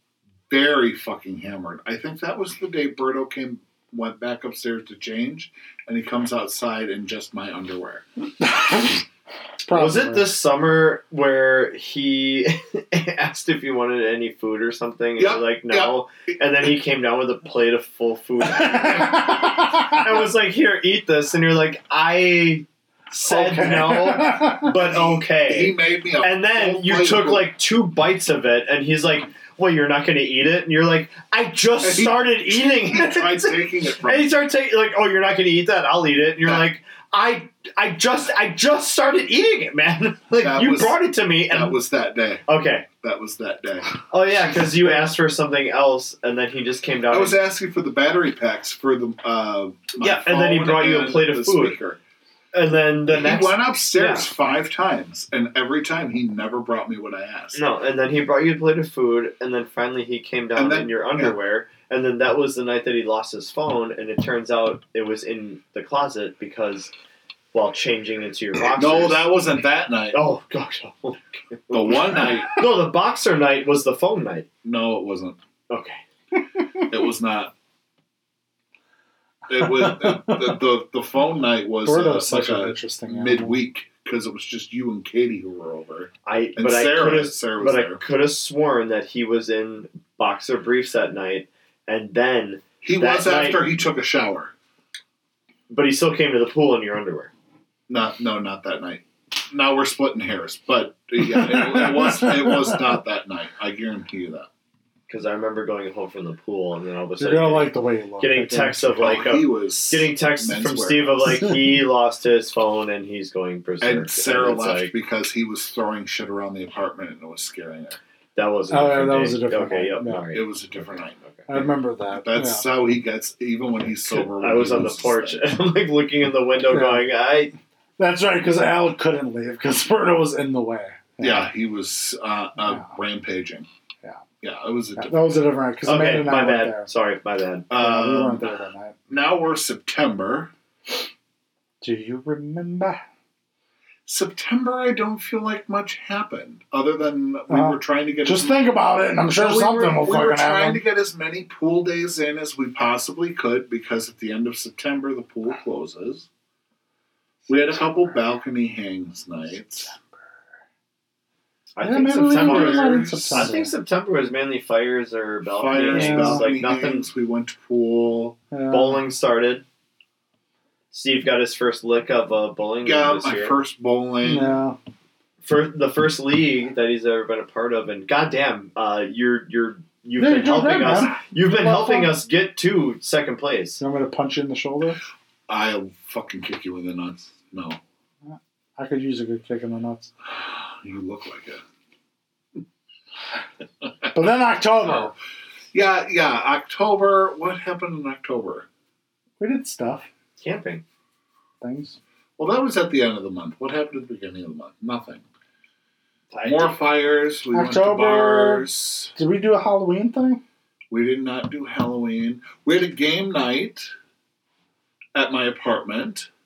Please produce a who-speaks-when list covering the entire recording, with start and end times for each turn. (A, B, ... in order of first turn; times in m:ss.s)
0:00.5-0:08.0 A
0:08.4-0:09.0 B
0:09.6-0:10.3 B
0:09.7-0:41.8 C
0:15.2-0:16.0 A
0:18.4-0:20.3 B
0:23.2-0:24.7 B
0:24.7-0:27.5 A
0:31.8-0:34.4 A
0:40.4-0:42.4 A
0:42.5-0:42.9 C
0:43.0-0:44.0 A
0:44.1-0:47.4 C
0:47.1-0:52.0 A
0:50.0-0:51.8 C
0:52.5-0:54.3 C
0:53.1-0:57.6 A
0:57.5-1:06.9 C
1:00.5-1:01.4 A
1:07.5-1:09.3 C
1:08.7-1:10.2 A
1:10.1-1:14.5 C
1:11.7-1:12.5 A
1:14.6-1:15.4 A
1:15.7-1:16.0 C
1:16.9-1:17.5 A
1:19.5-1:28.0 A
1:19.8-1:20.4 B
1:21.8-1:23.5 B
1:26.2-1:33.6 C
1:32.8-1:34.5 A
1:35.7-1:37.3 C
1:37.9-1:44.5 A
1:41.4-1:42.6 B
1:45.1-1:54.9 C
1:47.2-1:49.0 B
1:49.0-1:51.5 A
1:53.8-1:58.0 A
1:58.3-2:01.4 C
1:58.7-2:00.2 B
2:00.3-2:05.6 A
2:01.5-2:02.6 B
2:03.9-2:07.5 C
2:06.7-2:07.0 B
2:08.0-2:11.5 B
2:11.2-2:13.7 A
2:12.6-2:12.9 B
2:14.4-2:15.4 A
2:15.0-2:16.9 B
2:15.8-2:17.7 C
2:17.7-2:18.4 A
2:17.7-2:19.0 B
2:19.1-2:20.5 A
2:21.8-2:23.0 B
2:24.0-2:28.6 A
2:27.5-2:30.8 B
2:29.4-2:36.3 A
2:37.5-2:39.9 A
2:41.7-2:47.1 C
2:41.8-2:43.7 B
2:42.3-2:43.5 A
2:45.4-2:48.4 A
2:45.7-2:46.4 B
2:48.5-2:49.0 B
2:48.7-2:49.6 C
2:50.9-2:53.6 C
2:52.8-2:54.6 A
2:54.2-2:54.8 B
2:55.4-3:03.8 C
3:00.2-3:02.1 B
3:03.8-3:05.0 B
3:05.5-3:07.8 A
3:08.8-3:10.1 B
3:10.2-3:11.6 A
3:14.1-3:15.1 B
3:15.7-3:18.7 A
3:19.4-3:20.1 B
3:20.4-3:20.8 C
3:21.6-3:22.0 B
3:22.4-3:25.2 A
3:26.3-3:26.8 C
3:26.4-3:29.1 A
3:27.5-3:30.4 B
3:30.9-3:33.9 A
3:35.1-3:36.3 A